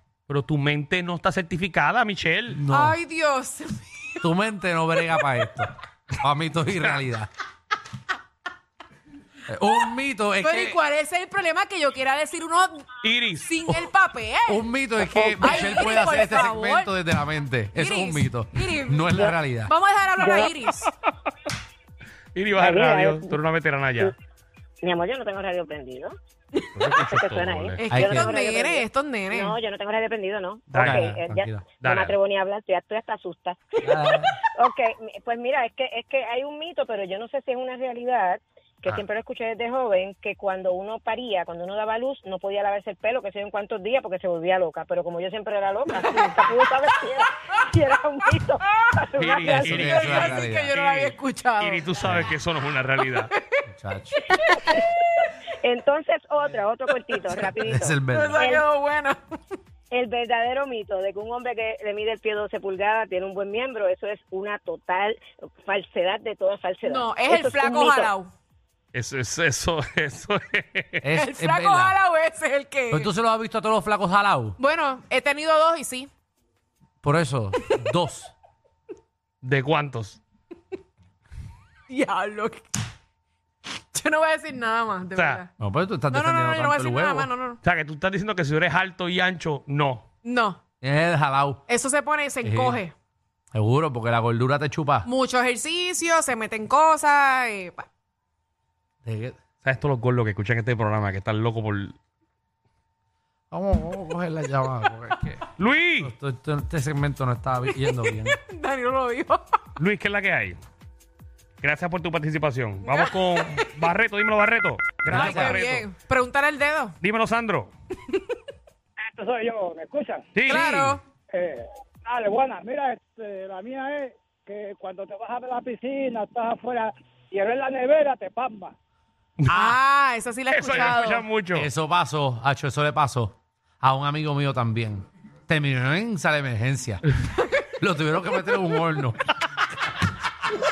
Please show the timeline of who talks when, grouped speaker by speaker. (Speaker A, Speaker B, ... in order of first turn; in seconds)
Speaker A: 0.3-2.6, 13.0-13.8, 22.3-24.1, 26.7-27.9, 30.7-31.2, 31.8-32.1, 49.2-53.3, 68.9-71.0, 79.4-80.2, 85.1-85.4, 87.6-90.0, 99.6-102.0, 105.6-106.1, 109.8-110.6, 111.6-115.9, 117.0-117.7, 120.3-121.0, 129.4-129.7, 130.5-131.7
Speaker B: 2.5-3.0, 4.2-7.3, 9.5-10.8, 14.5-19.7, 27.9-28.3, 30.7-31.6, 33.8-34.4, 49.3-50.7, 52.0-52.3, 53.7-54.2, 57.6-58.4, 71.0-71.9, 72.9-74.6, 77.0-78.3, 85.6-87.3, 90.8-91.6, 92.4-92.8, 93.5-95.1, 99.0-99.3, 103.5-105.4, 106.0-108.4, 115.1-115.6, 130.7-137.0, 137.7-139.3
Speaker C: 2.7-4.2, 10.4-12.9, 13.4-14.7, 15.4-16.9, 17.7-19.1, 19.6-20.9, 27.8-29.6, 46.0-46.9, 48.2-48.9, 49.9-51.9, 53.2-53.6, 54.3-54.8, 58.1-59.2, 66.8-68.3, 71.2-73.1, 74.6-76.1, 81.9-82.7, 83.9-85.5, 86.1-87.6, 90.2-90.6, 91.7-92.9, 95.0-97.9, 107.8-109.6, 112.8-113.7, 115.1-117.0, 120.5-121.0, 129.5-131.3
Speaker D: 15.3-15.9, 19.1-19.4, 20.2-20.6, 22.6-23.4, 24.8-26.1, 26.8-33.7, 34.2-50.1, 54.5-54.9, 55.6-58.6, 59.9-68.1
Speaker E: 119.1-128.7